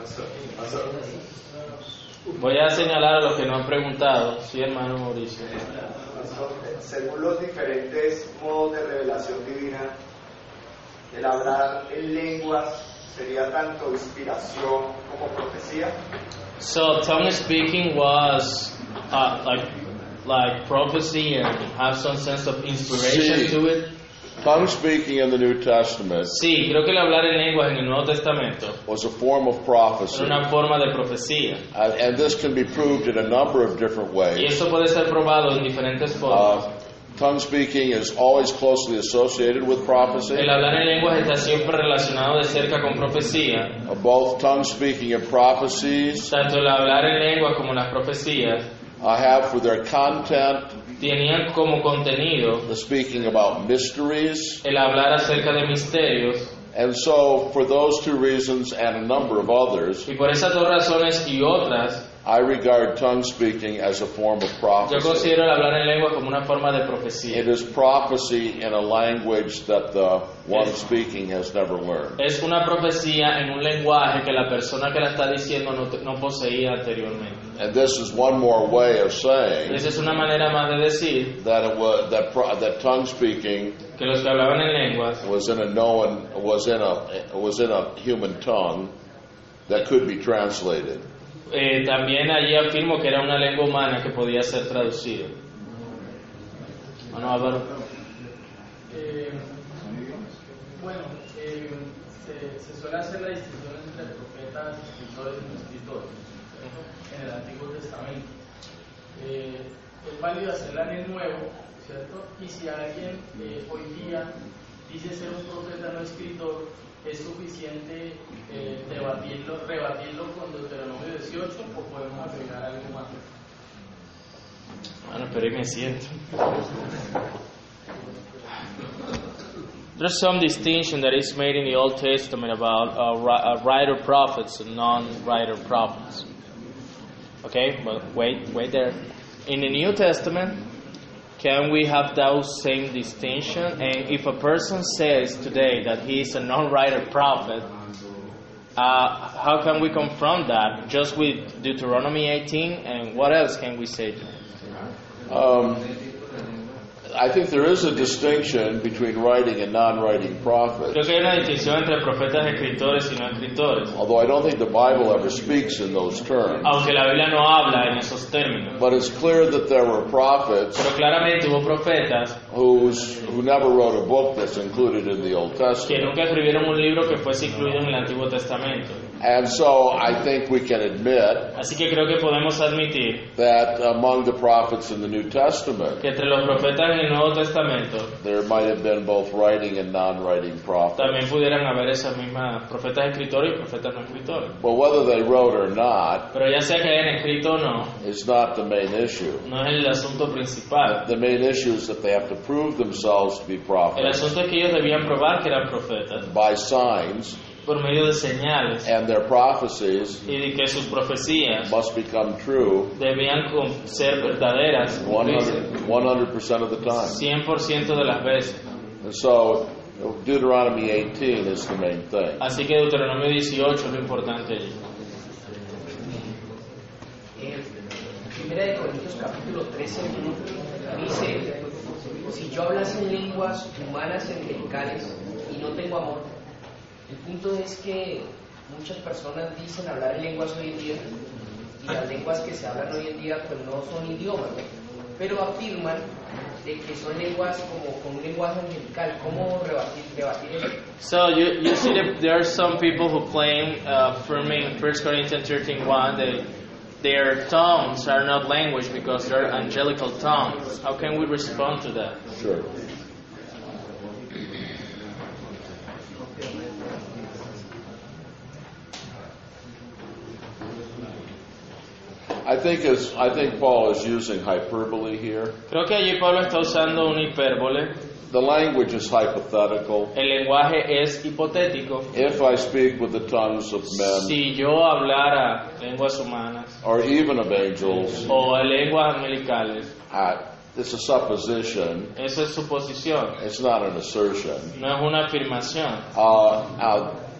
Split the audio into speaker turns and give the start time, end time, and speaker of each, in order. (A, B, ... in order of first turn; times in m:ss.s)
0:02.4-0:05.5 A
0:06.0-0:09.9 B
0:11.1-0:15.9 B
0:16.6-0:19.7 A
0:20.2-0:23.9 A
0:22.9-0:23.6 C
0:24.4-0:26.3 C
0:26.3-0:28.8 A
0:28.9-0:30.4 C
0:30.1-0:31.6 A
0:31.7-0:34.6 C
0:34.4-0:36.5 A
0:36.3-0:40.5 C
0:40.3-0:43.7 A
0:43.8-0:46.3 C
0:46.3-0:48.7 A
0:49.0-0:50.8 C
0:51.0-0:52.6 A
0:52.7-0:54.6 C
0:54.6-0:56.5 A
0:56.7-1:00.1 C
1:00.1-1:02.0 A
1:02.2-1:05.3 C
1:04.8-1:07.4 A
1:07.3-1:12.2 C
1:12.2-1:17.4 A
1:17.6-1:19.8 C
1:19.7-1:21.4 A
1:21.4-1:23.8 C
1:24.0-1:25.2 A
1:25.2-1:28.9 C
1:29.7-1:31.0 C
1:31.5-1:35.3 A
1:37.1-1:37.6 A
1:38.9-1:39.5 D
1:40.8-1:46.1 D
1:47.1-1:48.3 D
1:49.1-1:54.3 D
1:54.9-2:03.2 D
2:05.1-2:06.2 A
2:10.0-2:16.2 A
2:17.4-2:20.6 A
2:21.4-2:27.7 A
2:28.8-2:34.2 A
2:35.3-2:35.9 C
2:37.1-2:41.0 C
2:40.9-2:43.9 A
2:43.9-2:46.8 C
2:46.6-2:48.8 A
2:48.8-2:50.9 C
2:50.8-2:52.4 A
2:52.5-2:56.1 C
2:55.8-2:59.0 A
2:59.2-3:01.5 C
3:01.6-3:03.3 A
3:03.4-3:06.0 C
3:06.0-3:08.1 A
3:08.2-3:11.3 C
3:11.0-3:14.5 A
3:14.6-3:16.3 C
3:16.3-3:17.9 A
3:18.0-3:19.4 C
3:19.4-3:21.0 A
3:20.8-3:24.3 C
3:24.0-3:26.3 A
3:26.3-3:27.4 C
3:27.6-3:28.9 A
3:28.8-3:30.2 C
3:30.3-3:31.7 A
3:31.6-3:32.9 C
3:33.0-3:35.6 A
3:35.0-3:37.2 C
3:37.1-3:38.6 A
3:39.0-3:42.4 C
3:42.4-3:44.7 A
3:47.4-3:47.6 E
3:48.3-3:51.5 E
3:52.3-3:56.3 E
3:57.1-4:01.0 E
4:01.8-4:06.1 E
4:06.6-4:10.8 E
4:11.0-4:16.4 A
4:17.0-4:22.2 A
4:22.3-4:22.7 C
4:32.4-4:35.6 C
4:35.7-4:38.0 A
4:38.3-4:40.1 C
4:40.1-4:42.1 A
4:42.1-4:44.4 C
4:43.9-4:46.8 A
4:46.8-4:48.3 C
4:48.3-4:49.9 A
4:50.1-4:52.1 C
4:52.2-4:53.4 A
4:53.4-4:54.7 C
4:54.8-4:56.0 A
4:56.1-4:57.2 C